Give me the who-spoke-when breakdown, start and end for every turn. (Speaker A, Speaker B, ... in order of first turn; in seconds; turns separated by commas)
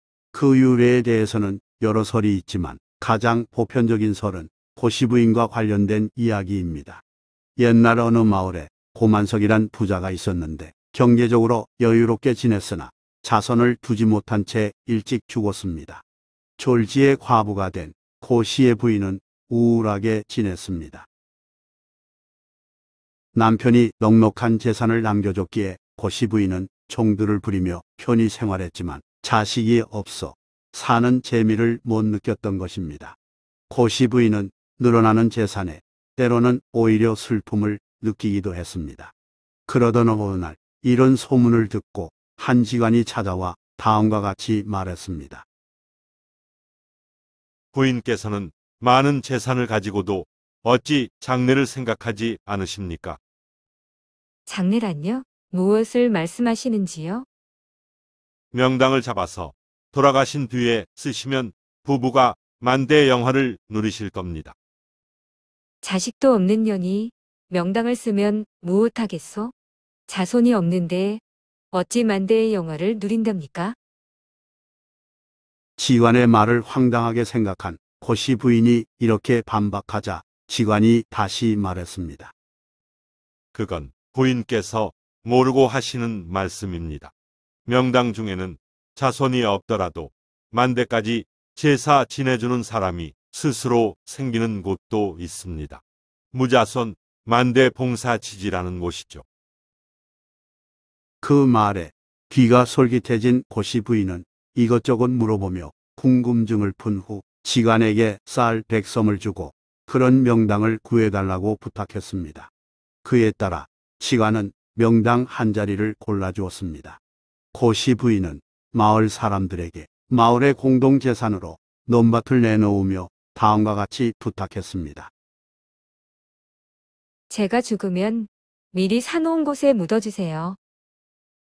Speaker A: 0.3-7.0, Speaker A: 7.6-16.0, Speaker A: 16.6-21.1, Speaker A: 23.3-33.1, Speaker A: 33.7-39.1, Speaker A: 39.7-45.4, Speaker B: 47.7-53.2, Speaker C: 54.5-57.2, Speaker B: 58.5-64.5, Speaker C: 65.8-69.5, Speaker C: 70.1-71.2, Speaker C: 71.7-73.8, Speaker A: 75.8-82.3, Speaker B: 83.5-87.1, Speaker B: 87.7-95.8, Speaker B: 96.3-99.2, Speaker A: 101.2-112.5, Speaker A: 113.0-117.0, Speaker A: 117.5-125.1, Speaker C: 127.3-130.6